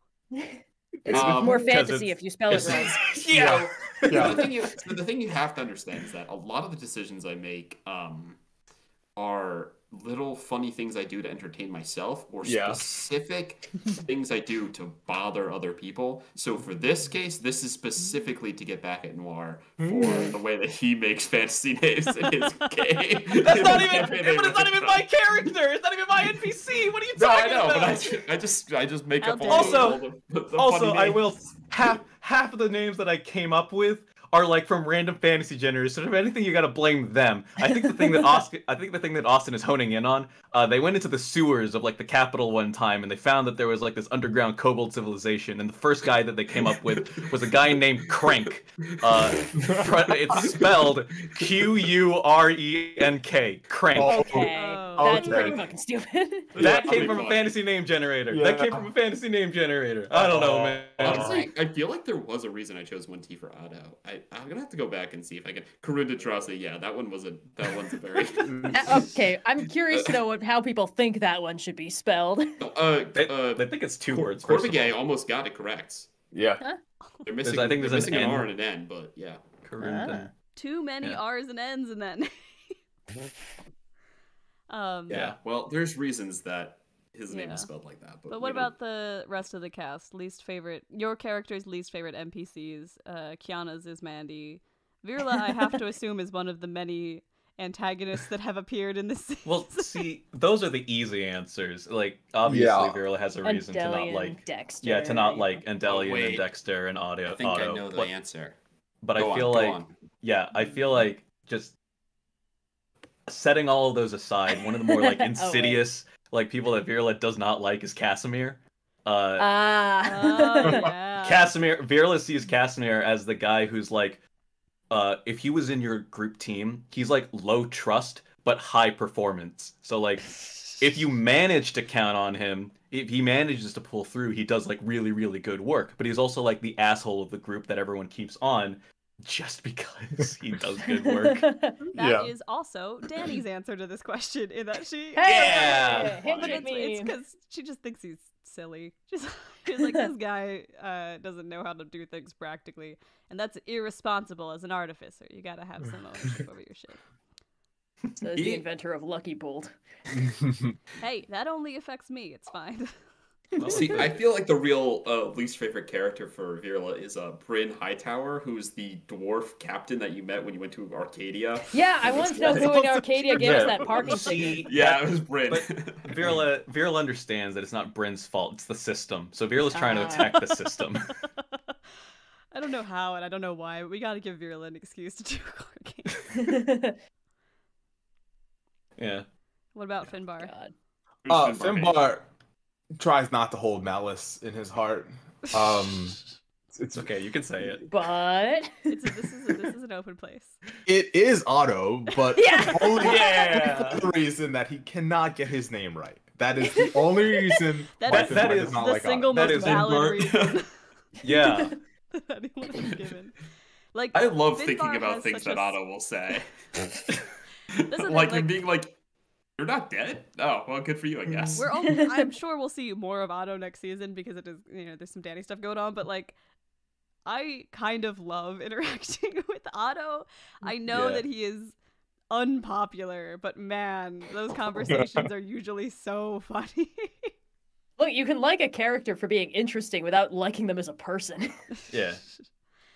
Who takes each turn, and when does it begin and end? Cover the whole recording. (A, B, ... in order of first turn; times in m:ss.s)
0:00.3-0:03.0 A
0:01.1-0:01.5 B
0:01.1-0:01.7 C
0:01.4-0:04.5 D
0:03.3-0:04.5 B
0:03.4-0:08.4 C
0:09.2-0:25.1 C
0:12.4-0:12.8 B
0:19.8-0:20.2 B
0:23.4-0:28.1 D
0:27.2-0:31.9 C
0:29.2-0:30.0 E
0:29.5-0:54.4 D
0:46.6-0:47.8 C
0:48.9-0:49.5 C
0:49.6-0:49.9 B
0:50.3-0:51.8 C
0:53.9-0:55.6 B
0:54.0-0:56.6 A
0:54.5-0:55.6 E
0:56.6-0:57.6 C
0:56.6-1:01.4 D
0:58.3-0:58.9 B
1:00.1-1:01.5 B
1:01.0-1:09.0 C
1:08.4-1:09.1 B
1:08.7-1:12.6 A
1:09.9-1:10.2 C
1:12.6-1:16.1 C
1:13.2-1:15.0 D
1:16.3-1:16.6 B
1:17.2-1:19.4 C
1:17.4-1:18.5 D
1:19.6-1:20.3 D
1:19.8-1:20.3 A
1:20.6-1:22.8 E
1:24.7-1:25.2 E
1:25.1-1:25.4 D
1:25.1-1:28.7 C
1:27.3-1:27.7 E
1:28.3-1:40.1 E
1:39.4-1:48.1 D
1:42.5-1:43.0 B
1:43.4-1:45.6 A
1:45.8-1:46.5 C
1:47.3-1:48.6 C
1:49.0-1:51.8 D
1:49.2-1:49.9 C
1:53.3-1:59.5 D
1:54.6-1:55.8 A
1:59.4-2:00.9 A
2:00.0-2:01.5 E
2:00.6-2:00.9 B
2:01.2-2:04.2 D
2:04.9-2:21.5 D
2:21.0-2:21.8 A
2:21.9-2:37.0 E
2:22.0-2:22.3 B
2:25.2-2:27.2 A
2:25.2-2:26.2 D
2:26.1-2:26.7 C
2:38.2-2:39.7 A
2:38.4-2:38.6 C
2:40.2-2:40.7 B
2:41.0-2:43.0 E
2:43.6-2:44.1 D
2:43.7-2:44.0 A
2:43.7-2:52.8 C
2:51.7-2:54.7 A
2:52.4-3:01.1 D
2:53.4-2:53.8 B
2:54.6-2:56.4 C
2:59.7-3:00.3 A
3:00.0-3:00.8 E
3:02.5-3:06.3 E
3:06.4-3:07.0 A
3:09.0-3:09.3 D
3:09.8-3:10.5 E
3:10.4-3:10.7 A
3:11.2-3:12.1 C
3:11.3-3:12.3 B
3:13.0-3:16.2 B
3:16.8-3:17.1 B
3:16.9-3:17.9 D
3:17.9-3:19.1 A
3:18.9-3:20.6 E
3:20.9-3:29.9 B
3:22.3-3:23.6 A
3:22.8-3:24.1 D
3:28.0-3:30.8 E
3:28.1-3:30.2 D
3:29.8-3:30.6 C
3:31.2-3:31.8 D
3:32.1-3:33.4 E
3:33.9-3:35.8 E
3:34.1-3:36.5 C
3:37.8-3:39.0 C
3:37.9-3:38.6 E
3:39.6-3:41.7 C
3:41.3-3:41.6 B
3:41.6-3:46.4 E
3:41.9-3:42.2 A
3:47.3-3:51.8 E
3:50.9-3:51.2 D
3:52.3-3:57.3 E
3:54.8-3:55.3 B
3:58.0-4:01.7 A
4:01.9-4:02.2 D